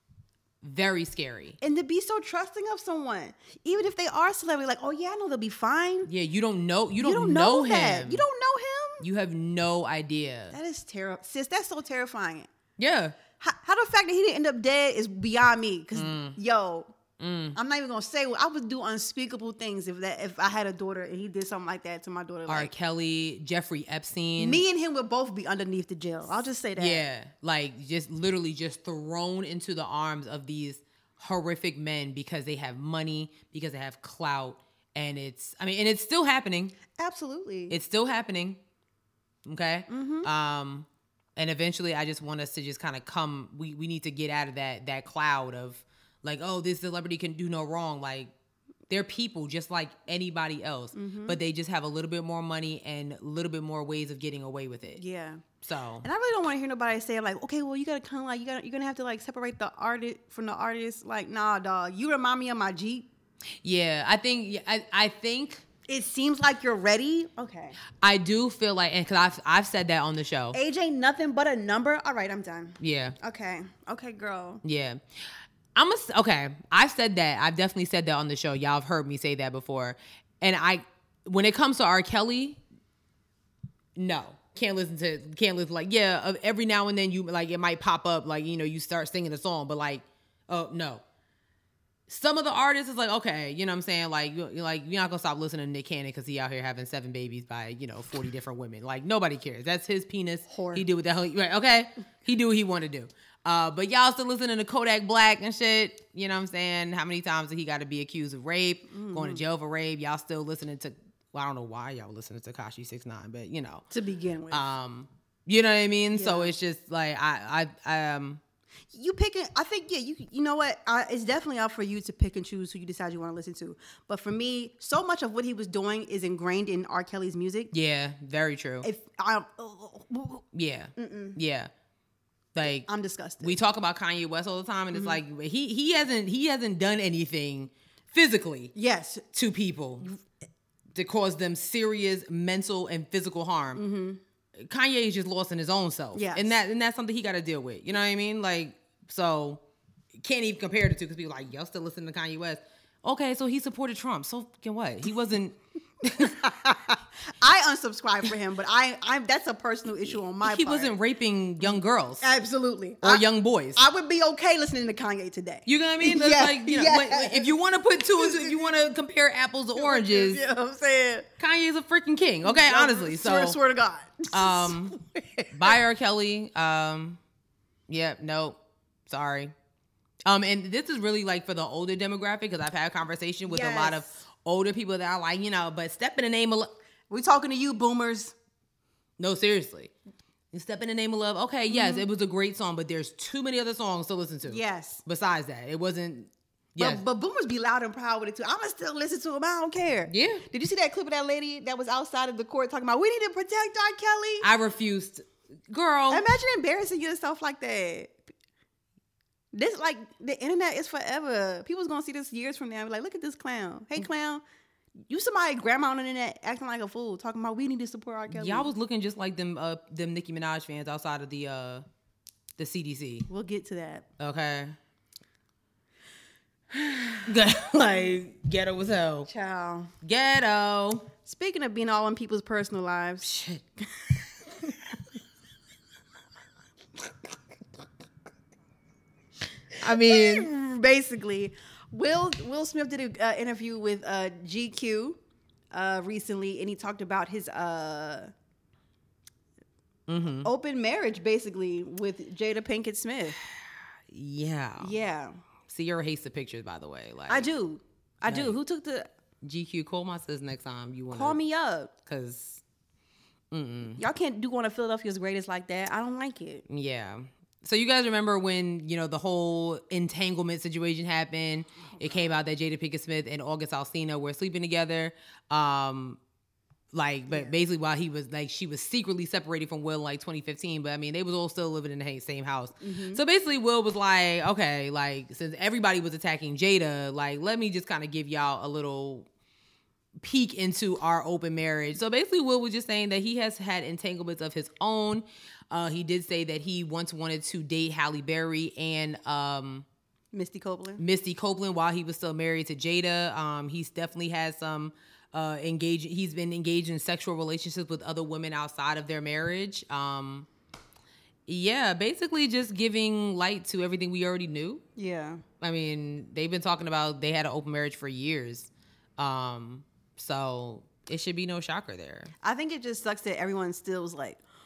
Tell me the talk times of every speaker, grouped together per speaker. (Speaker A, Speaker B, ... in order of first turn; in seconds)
Speaker A: 0.6-1.6, 6.0-8.2, 9.0-10.6, 12.8-13.2, 15.9-16.4, 17.2-17.6, 22.5-24.6, 26.8-36.8, 37.7-38.6, 39.5-48.3, 48.9-55.0, 55.6-56.0, 63.6-65.7, 68.0-70.6, 72.8-73.2, 74.6-75.0, 75.7-82.6, 84.0-91.0, 92.1-113.8, 114.5-118.4, 127.7-128.9, 130.5-131.7, 132.5-132.9, 133.4-138.7, 139.3-140.1, 140.9-143.8, 144.6-149.6, 150.2-156.4, 160.4-162.3, 163.0-163.8, 165.7-170.4, 171.4-173.6, 174.3-174.9, 175.5-177.2, 177.9-178.6, 179.1-179.5, 180.2-186.7, 189.2-189.9, 190.5-197.0, 200.1-200.4, 204.4-206.2, 218.3-221.8, 222.6-223.3, 224.2-224.8, 227.2-229.3, 230.0-231.1, 233.2-233.6, 239.8-240.5, 250.1-250.5, 254.1-254.9, 255.7-257.5, 258.2-258.6, 259.4-261.4, 262.0-262.6, 263.5-264.0, 266.7-276.2, 276.9-289.3, 290.2-299.8, 301.0-310.5, 311.5-314.8, 315.6-322.3
Speaker B: 1.6-6.1, 7.0-9.0, 10.5-12.5, 13.4-16.9, 17.5-22.7, 24.4-27.0, 36.9-37.7, 39.9-40.3, 50.9-51.4, 55.0-55.4, 56.0-63.1, 65.9-67.8, 70.5-74.6, 100.5-100.8, 108.9-109.4, 113.9-114.7, 116.1-116.5, 118.9-127.7, 128.8-130.4, 130.9-131.4, 132.6-133.6, 134.9-135.2, 138.7-139.3, 143.7-144.2, 146.1-146.6, 156.2-160.9, 161.6-167.5, 168.1-168.8, 169.8-171.3, 172.4-175.8, 183.4-184.1, 187.1-188.3, 191.7-192.1, 194.4-195.0, 196.8-204.5, 206.1-208.2, 209.5-214.4, 215.1-218.7, 223.3-224.1, 226.7-227.3, 229.2-229.9, 231.2-233.3, 239.8-245.2, 245.7-248.3, 250.4-253.4, 254.8-255.4, 257.3-259.1, 261.1-261.9, 264.0-266.6, 271.9-272.3, 277.3-277.6, 282.8-283.2, 300.3-301.0, 314.9-315.4, 322.4-324.4